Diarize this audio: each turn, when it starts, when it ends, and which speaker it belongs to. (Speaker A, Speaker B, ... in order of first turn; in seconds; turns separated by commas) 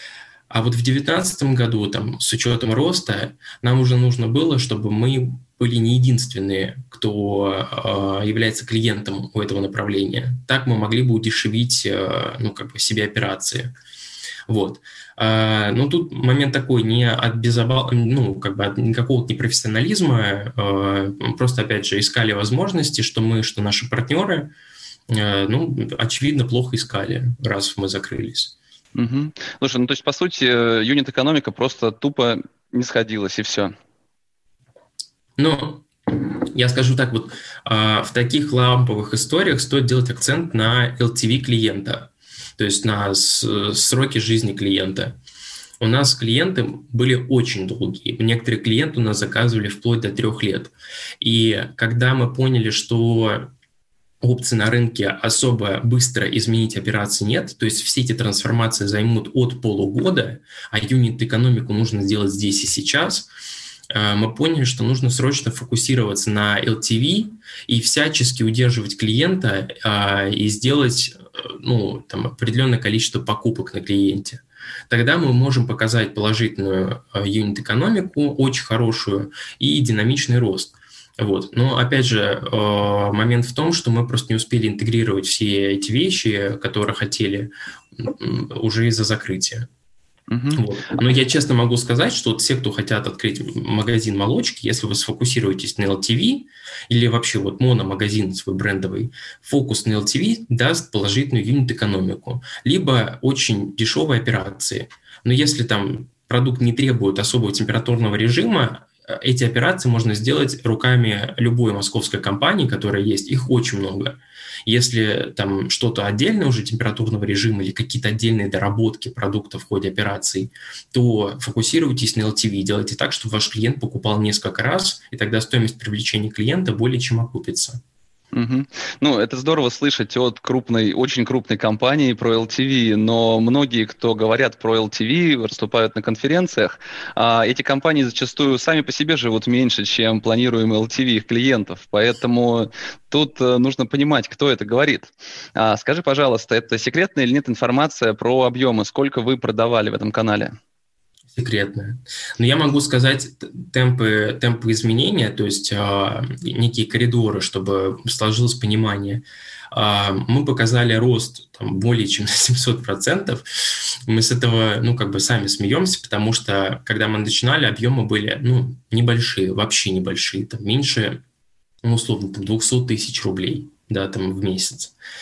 Speaker A: 0.5-13.7, Speaker A: 14.5-24.5, Speaker A: 25.1-28.5, Speaker B: 28.9-33.7, Speaker A: 35.4-45.1, Speaker A: 45.8-53.5, Speaker A: 54.2-63.3, Speaker A: 63.9-89.7, Speaker B: 90.3-90.6, Speaker A: 90.5-127.8, Speaker B: 128.3-150.6, Speaker A: 151.3-163.4, Speaker A: 164.1-171.2, Speaker A: 171.8-174.9